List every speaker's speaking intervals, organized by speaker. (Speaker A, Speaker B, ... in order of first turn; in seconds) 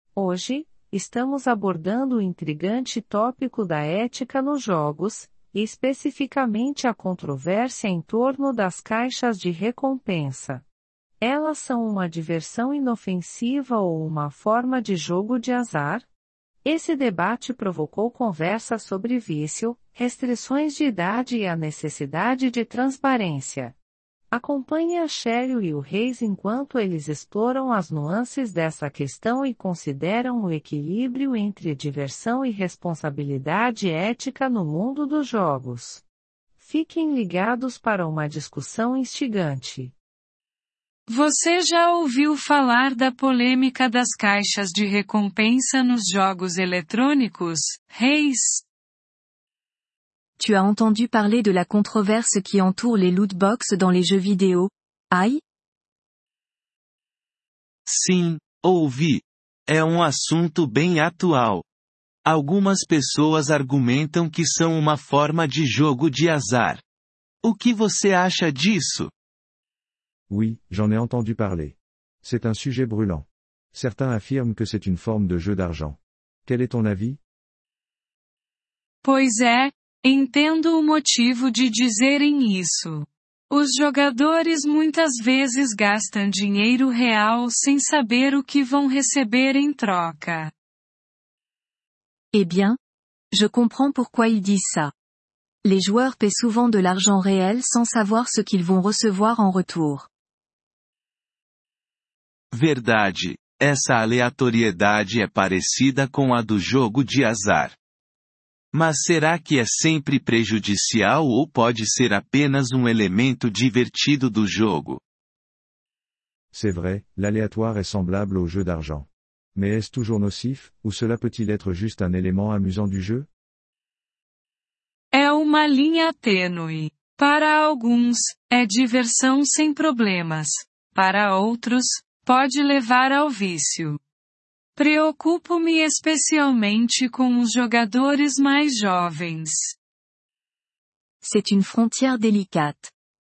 Speaker A: 0.1-10.6, 11.2-16.1, 16.6-23.8, 24.3-36.0, 36.6-39.9
Speaker B: 41.1-48.6, 79.0-90.5, 125.1-134.0, 134.8-139.8
Speaker C: 50.4-55.4, 92.3-92.8, 93.3-94.9, 95.6-100.1, 141.2-142.9
Speaker D: 57.8-61.6, 62.2-66.8, 67.4-69.1, 102.5-107.8, 108.7-115.0
Speaker E: 70.3-77.2, 116.5-123.3